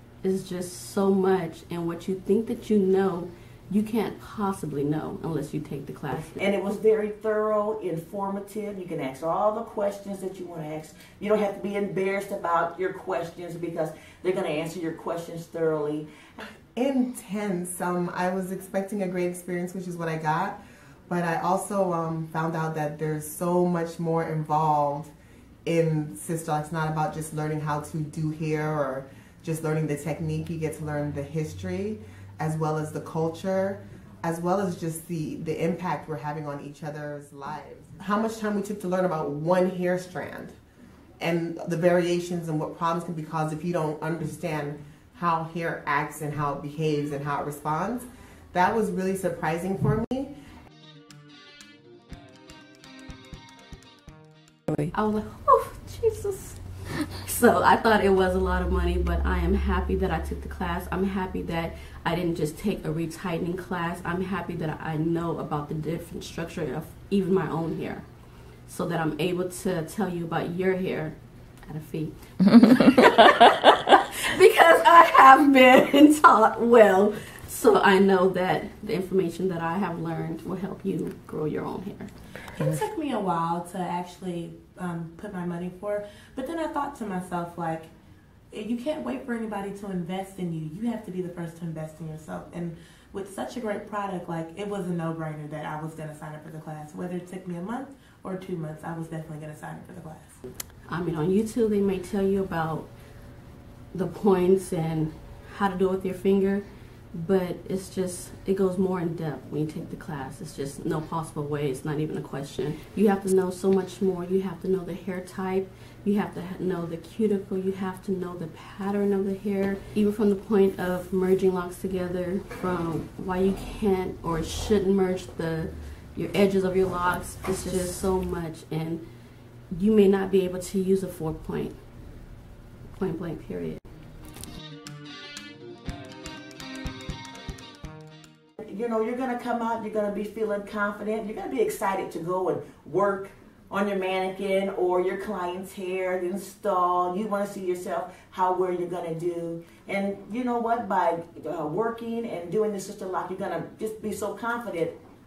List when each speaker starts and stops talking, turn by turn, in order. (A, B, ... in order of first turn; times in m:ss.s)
0:00.2-0:06.8 A
0:06.4-0:16.1 B
0:16.8-0:25.1 C
0:25.6-0:40.6 C
0:41.2-0:50.3 C
0:54.9-1:22.1 A
1:22.6-1:27.9 D
1:28.5-1:40.4 D
1:40.8-1:42.9 A
1:43.9-2:09.0 A
2:09.7-2:11.8 A
2:12.9-2:13.8 A
2:18.6-2:35.0 B